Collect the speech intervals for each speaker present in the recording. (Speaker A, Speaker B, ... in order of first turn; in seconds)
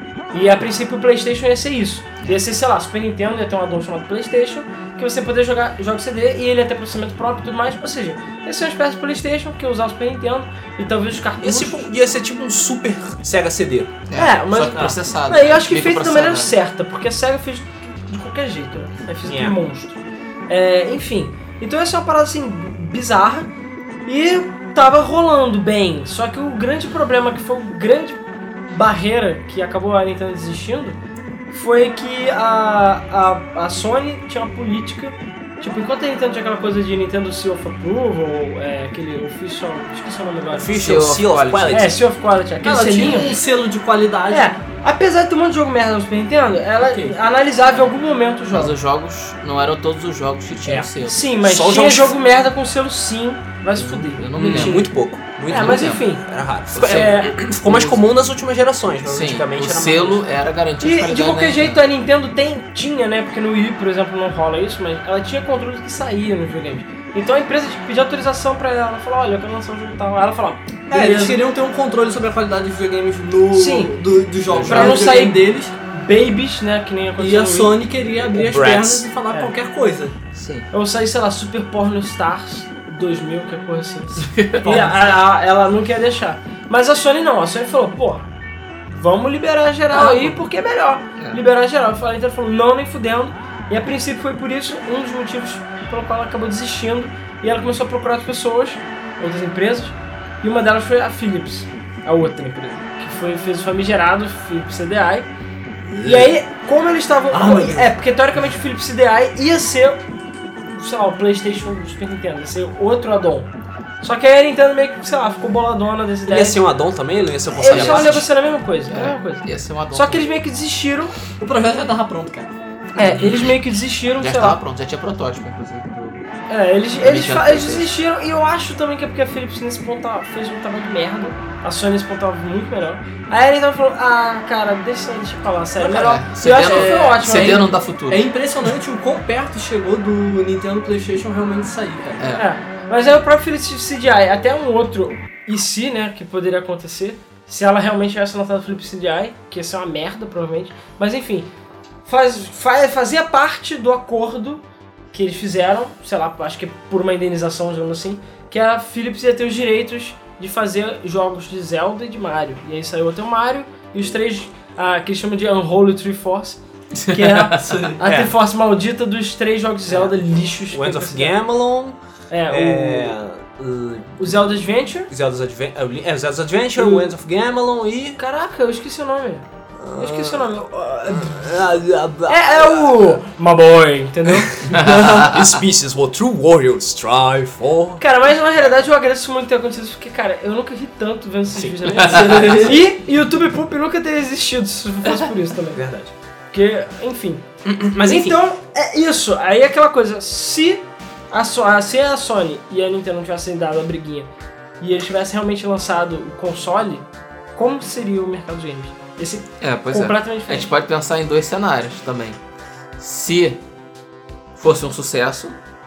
Speaker A: 0.3-11.9, 14.1-23.5, 24.0-31.0, 31.5-40.8, 41.7-43.4, 44.3-48.7, 50.7-54.9, 55.5-56.2, 56.8-57.9, 60.8-71.4, 73.5-73.9, 74.6-77.7, 80.7-88.3, 88.9-105.3, 106.0-110.0, 110.7-113.5, 114.0-116.6, 117.6-121.1, 123.0-124.6, 126.5-137.7, 142.3-151.5, 152.0-171.3, 172.3-173.1, 174.2-175.1, 176.8-177.1, 178.2-179.4, 180.0-181.4, 182.3-184.5, 188.0-195.8, 196.5-197.4, 198.0-204.3, 204.8-210.7
Speaker B: 11.4-14.0, 19.3-19.6, 40.5-41.9, 51.4-52.1, 54.4-60.2, 78.3-79.0, 116.3-118.2, 168.0-168.3, 170.7-172.0, 172.5-174.4, 175.1-178.2, 179.8-183.2, 184.3-188.0, 191.6-192.0, 195.7-196.1, 197.6-198.4
Speaker C: 14.1-16.5, 40.7-41.9, 48.5-51.2, 53.7-54.9, 55.5-56.0, 56.7-57.9, 59.0-61.8, 74.5-75.1, 80.3-80.7, 84.2-84.8, 89.9-90.4, 117.7-118.2, 118.9-120.3, 123.0-123.6, 124.2-126.3, 126.9-127.9, 135.8-138.3, 167.0-167.9, 184.7-185.4, 209.6-212.4, 213.0-213.6, 214.6-215.6
Speaker D: 42.6-44.5, 46.8-47.2, 70.9-75.7, 77.2-80.1, 84.6-85.1, 105.9-106.3, 107.3-107.9, 121.4-122.5, 136.6-142.2, 167.5-168.0, 192.0-192.9